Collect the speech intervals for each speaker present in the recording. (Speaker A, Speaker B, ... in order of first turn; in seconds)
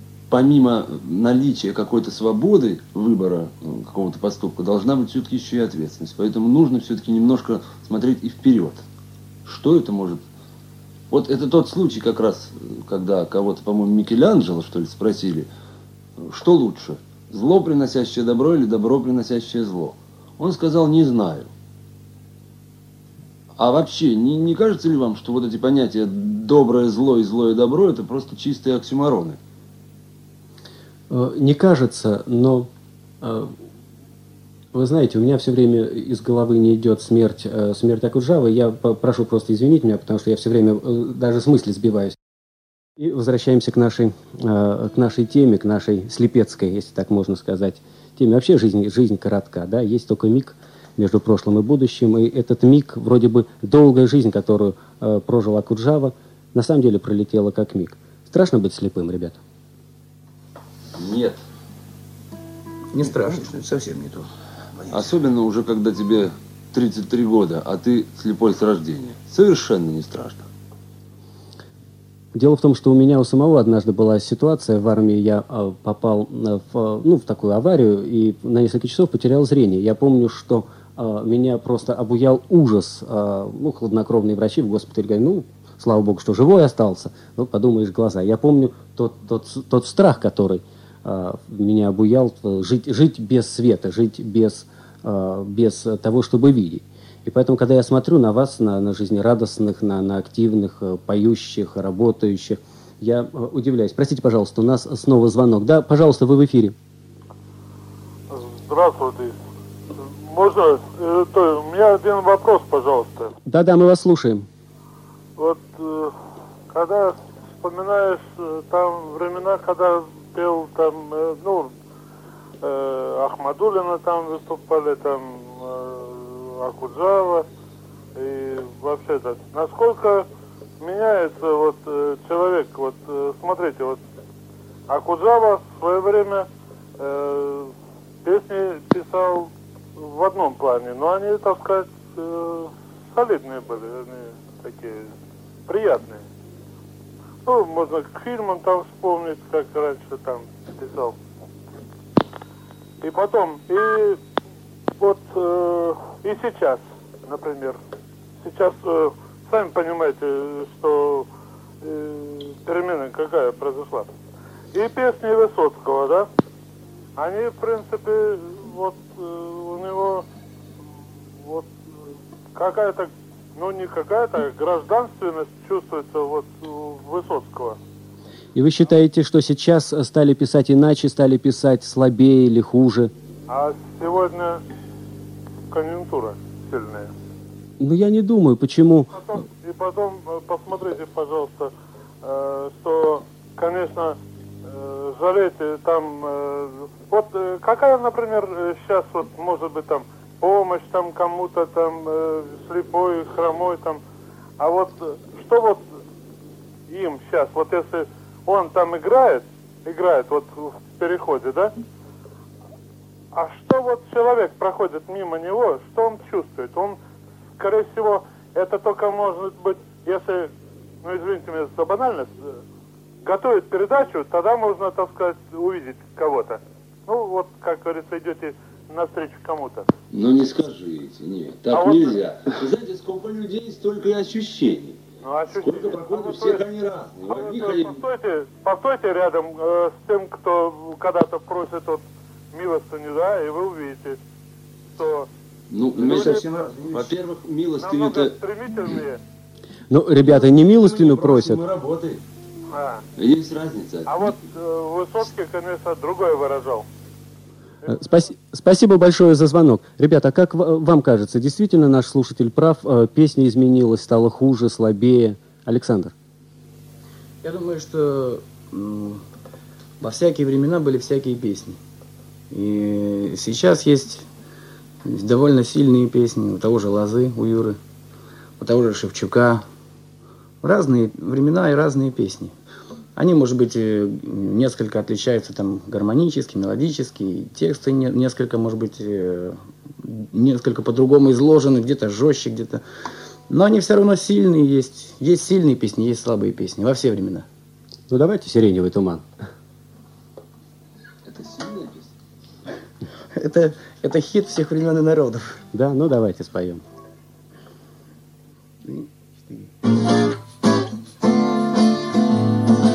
Speaker A: 0.3-8.8, 9.4-10.2, 11.1-15.5, 16.2-21.5, 23.6-29.4, 61.0-61.4, 64.9-70.5, 230.1-235.0, 235.5-238.0, 245.7-248.4, 250.2-252.2, 253.2-254.4, 301.3-302.1
Speaker B: 31.1-32.7, 33.2-33.5, 34.7-42.2, 43.0-59.4, 72.3-106.8, 113.5-114.5, 178.6-183.1, 187.8-189.2, 249.9-251.6, 257.9-266.1, 298.1-299.2, 305.7-306.8
Speaker C: 62.9-63.4, 267.4-269.2, 270.0-271.8, 272.5-274.3, 275.0-277.8, 278.6-279.6, 280.6-282.5, 283.2-292.8, 293.5-297.5, 303.4-305.6, 308.8-309.7
Speaker D: 63.0-65.1, 245.9-247.2
Speaker E: 108.3-109.4, 110.0-113.3, 115.4-116.1, 116.7-121.7, 122.6-127.5, 128.2-130.3, 130.8-134.0, 134.9-136.5, 137.0-137.7, 138.2-145.1, 145.7-146.2, 147.5-151.2, 153.0-154.2, 155.0-157.8, 158.4-161.3, 161.8-164.1, 164.7-166.3, 167.2-170.2, 171.4-171.7, 172.6-177.8, 183.5-184.6, 185.7-187.1, 189.2-191.7, 192.2-204.0, 204.6-205.9, 206.9-211.7, 213.3-217.0, 217.6-220.5, 221.0-222.5, 223.2-229.9, 231.7-232.2, 235.2-236.6, 237.2-244.2, 244.9-245.3, 246.0-246.5, 247.8-249.2, 252.7-253.0, 254.1-256.9, 257.8-258.3